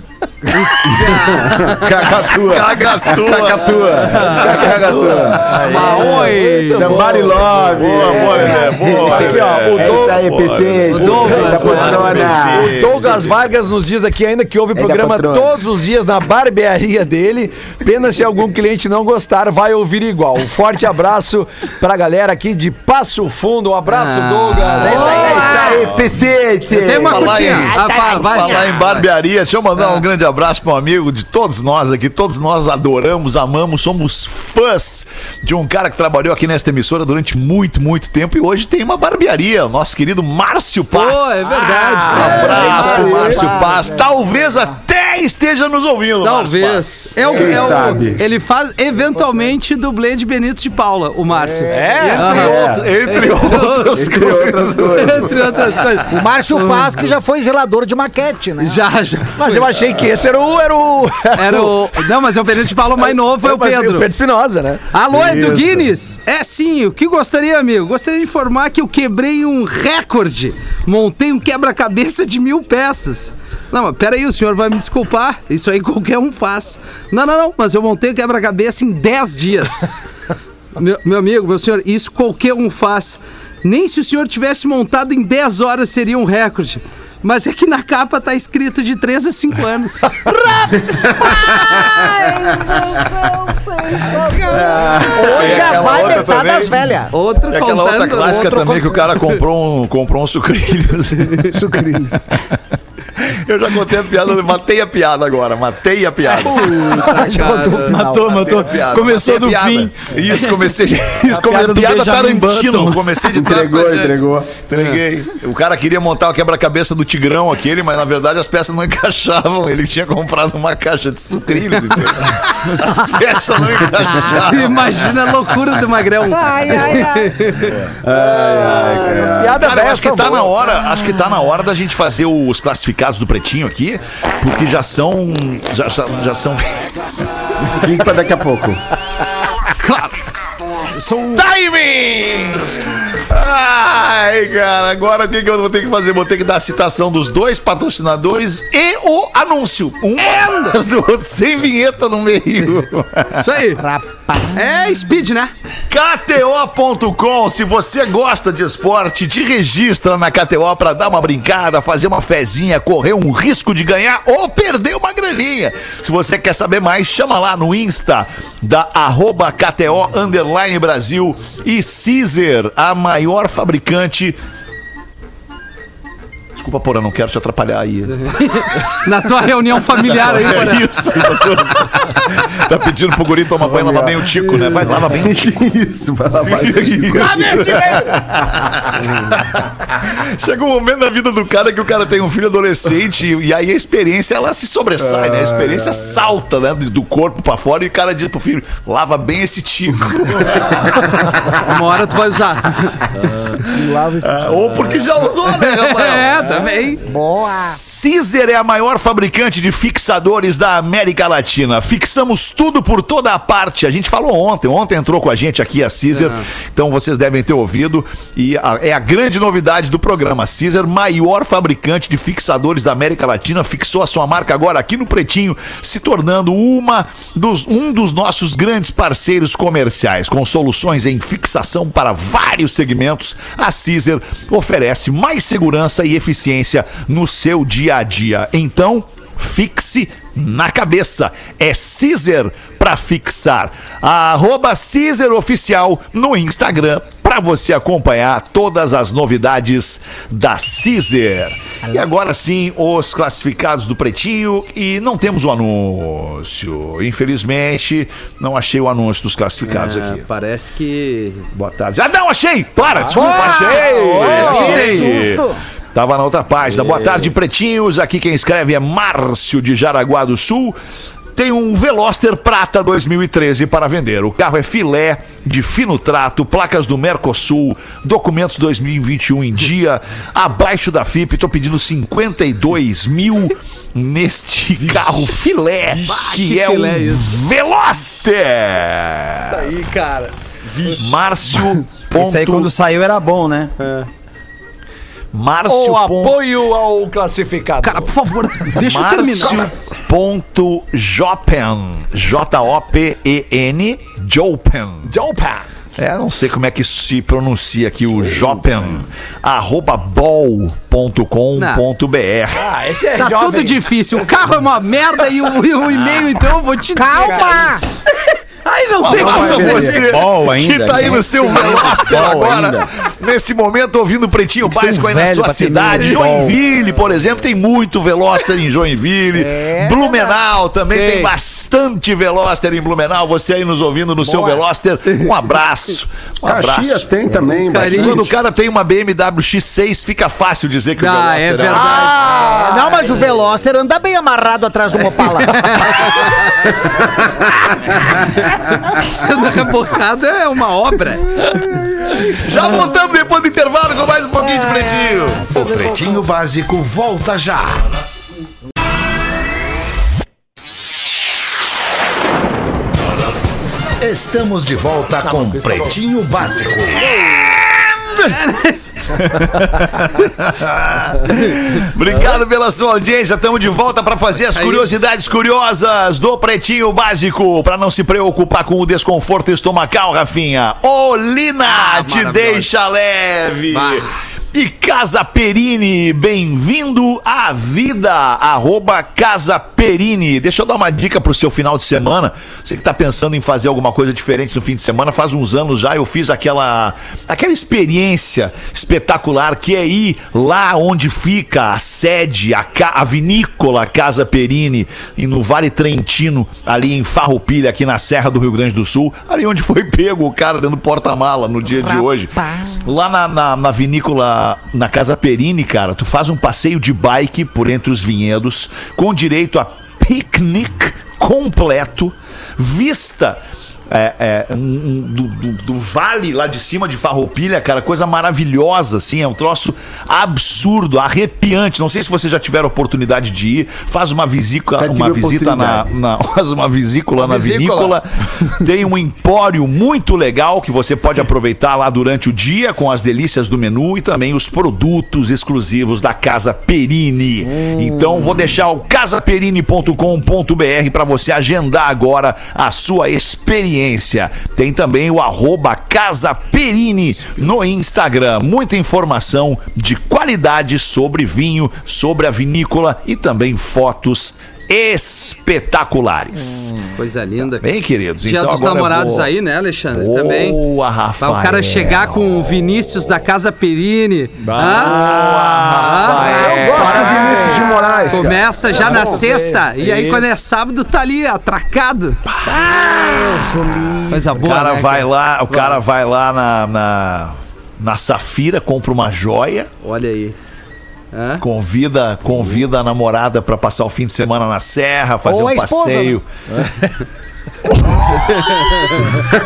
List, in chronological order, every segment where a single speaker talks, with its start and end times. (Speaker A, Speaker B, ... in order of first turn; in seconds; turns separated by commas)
Speaker A: 0.5-1.9, Speaker B: 1.0-5.5, Speaker C: 2.3-5.6, Speaker A: 4.1-4.6, Speaker D: 4.3-10.2, Speaker A: 5.4-7.0, Speaker B: 6.7-12.8, Speaker C: 7.7-13.3, Speaker A: 10.9-12.3, Speaker D: 11.1-25.8, Speaker B: 14.7-15.5, Speaker A: 23.9-25.5, Speaker B: 24.8-27.6, Speaker E: 24.9-25.9, Speaker C: 25.8-26.1, Speaker A: 26.7-29.1, Speaker C: 26.9-47.8, Speaker E: 27.2-28.7, Speaker A: 29.8-30.0, Speaker A: 40.9-43.4, Speaker D: 41.5-43.5, Speaker E: 42.2-44.0, Speaker B: 42.3-43.5, Speaker A: 46.2-54.1, Speaker B: 47.2-48.2, Speaker E: 51.5-51.9, Speaker D: 51.7-52.5, Speaker C: 52.1-55.9, Speaker B: 52.3-53.0, Speaker B: 53.9-55.5, Speaker A: 54.9-57.1, Speaker E: 56.0-58.8, Speaker A: 58.6-59.7, Speaker D: 59.4-62.0, Speaker A: 61.3-64.1, Speaker D: 63.0-65.0, Speaker A: 64.9-79.9, Speaker B: 65.1-65.8, Speaker A: 80.8-90.3, Speaker E: 90.5-97.1, Speaker C: 94.5-96.9, Speaker B: 94.7-95.1, Speaker A: 97.1-98.6, Speaker C: 97.5-101.6, Speaker E: 98.2-99.1, Speaker F: 101.6-102.2, Speaker C: 103.2-106.9, Speaker A: 106.4-108.0, Speaker E: 106.5-108.3, Speaker F: 106.8-110.6, Speaker C: 108.0-125.4, Speaker F: 111.2-113.2, Speaker B: 113.3-114.5, Speaker A: 114.7-115.0, Speaker A: 124.2-127.9, Speaker E: 126.2-127.5, Speaker B: 128.0-129.7, Speaker C: 128.1-136.9, Speaker D: 129.1-130.5, Speaker B: 137.7-138.8, Speaker A: 139.8-140.2, Speaker A: 140.9-141.5, Speaker D: 141.3-142.7, Speaker C: 142.9-153.5, Speaker A: 153.3-153.8, Speaker E: 153.8-154.7, Speaker A: 154.5-155.5, Speaker C: 155.9-174.4, Speaker C: 176.5-178.2, Speaker A: 178.2-182.1, Speaker C: 180.0-185.6, Speaker B: 183.6-188.0, Speaker C: 186.4-201.6, Speaker D: 187.3-188.0, Speaker B: 195.0-196.1, Speaker A: 201.5-203.1, Speaker E: 203.7-204.6, Speaker C: 204.2-206.5, Speaker A: 205.5-207.0, Speaker E: 207.0-207.8, Speaker C: 207.4-260.2, Speaker A: 216.1-216.4, Speaker A: 259.6-261.5, Speaker C: 261.5-270.8, Speaker D: 263.0-264.9, Speaker E: 263.1-265.6, Speaker A: 264.2-265.2, Speaker C: 271.3-289.7, Speaker A: 285.9-287.3, Speaker A: 289.4-291.1, Speaker C: 290.9-292.7, Speaker F: 292.1-293.7, Speaker A: 293.8-294.1, Speaker C: 295.3-296.4, Speaker D: 295.6-298.1, Speaker A: 297.8-299.7, Speaker C: 298.7-305.1, Speaker D: 305.0-305.7, Speaker C: 305.9-312.7, Speaker A: 311.6-311.8, Speaker D: 312.5-314.5, Speaker A: 313.1-320.1, Speaker E: 316.9-317.8, Speaker C: 319.0-337.1, Speaker F: 319.2-322.9, Speaker F: 324.6-326.6, Speaker E: 329.3-330.4, Speaker A: 330.9-331.3, Speaker B: 336.4-338.3, Speaker A: 337.7-338.3, Speaker C: 337.8-342.2, Speaker A: 341.0-342.5, Speaker D: 341.7-343.1, Speaker E: 342.5-346.3, Speaker A: 345.4-346.7, Speaker A: 348.2-351.5, Speaker C: 352.2-355.7, Speaker E: 354.4-356.3, Speaker G: 355.5-357.8, Speaker G: 364.0-367.1, Speaker D: 365.2-365.9, Speaker E: 367.1-367.5, Speaker C: 367.1-368.4, Speaker A: 368.2-368.8, Speaker C: 369.1-466.9, Speaker A: 374.5-374.9, Speaker A: 381.6-382.7, Speaker A: 383.7-384.1, Speaker E: 411.7-412.9, Speaker B: 434.8-435.9, Speaker D: 437.2-438.0, Speaker D: 447.4-448.4, Speaker A: 467.0-467.6, Speaker C: 467.6-469.3, Speaker A: 468.2-470.6, Speaker C: 469.9-472.3, Speaker A: 471.2-475.1, Speaker D: 474.4-480.4, Speaker C: 474.8-476.6, Speaker A: 475.8-476.4, Speaker B: 476.3-479.2, Speaker A: 478.1-482.2, Speaker C: 482.3-483.4, Speaker E: 482.4-484.3, Speaker A: 484.1-485.8, Speaker C: 484.3-489.7, Speaker A: 489.8-490.4, Speaker A: 491.1-491.4, Speaker C: 491.4-496.9, Speaker E: 495.2-496.2, Speaker C: 497.7-498.6, Speaker A: 498.3-499.2